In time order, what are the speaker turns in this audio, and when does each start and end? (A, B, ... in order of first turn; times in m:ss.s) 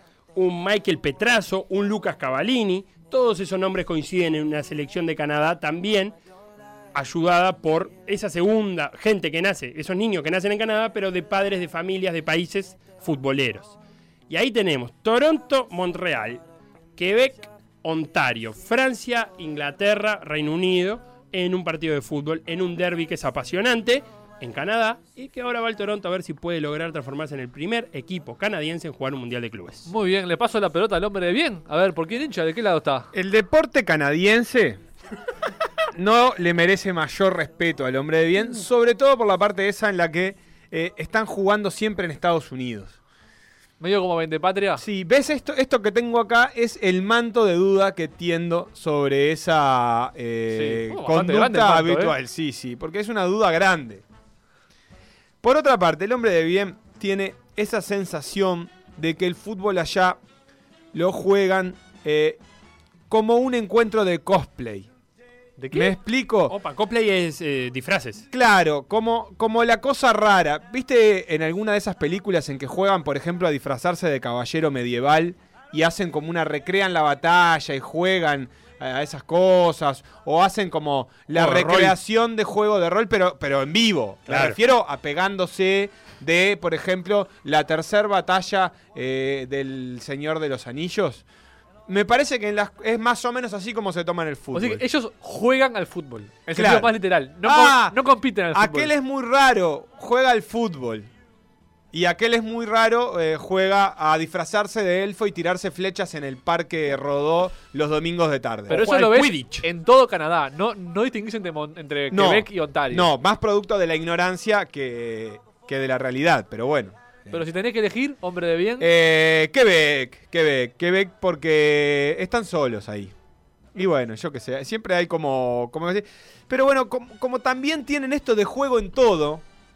0:00.3-0:06.2 A
0:06.9-0:13.8 A
0:14.3-0:16.4 A
0:17.0-0:29.9 A
0:29.9-0:33.1 B
0:33.1-0:34.8 C
0:35.9-0:43.0 C
0:43.8-0:44.8 B
0:44.8-0:54.0 C
0:50.5-0:52.1 B
0:55.4-1:00.2 C
1:00.9-1:02.4 C
1:03.1-1:04.9 C
1:05.6-1:05.9 B
1:05.7-1:06.5 C
1:06.5-1:08.2 A
1:08.3-1:31.2 C
1:21.3-1:22.0 A
1:24.3-1:24.6 A
1:31.9-1:34.8 C
1:34.5-1:38.9 B
1:36.5-1:38.0 C
1:38.5-1:41.1 C
1:41.9-1:48.9 C
1:48.7-1:49.6 A
1:48.7-1:53.1 B
1:52.1-1:57.4 C
1:57.3-1:58.9 B
1:58.8-2:03.1 C
2:03.7-2:09.4 C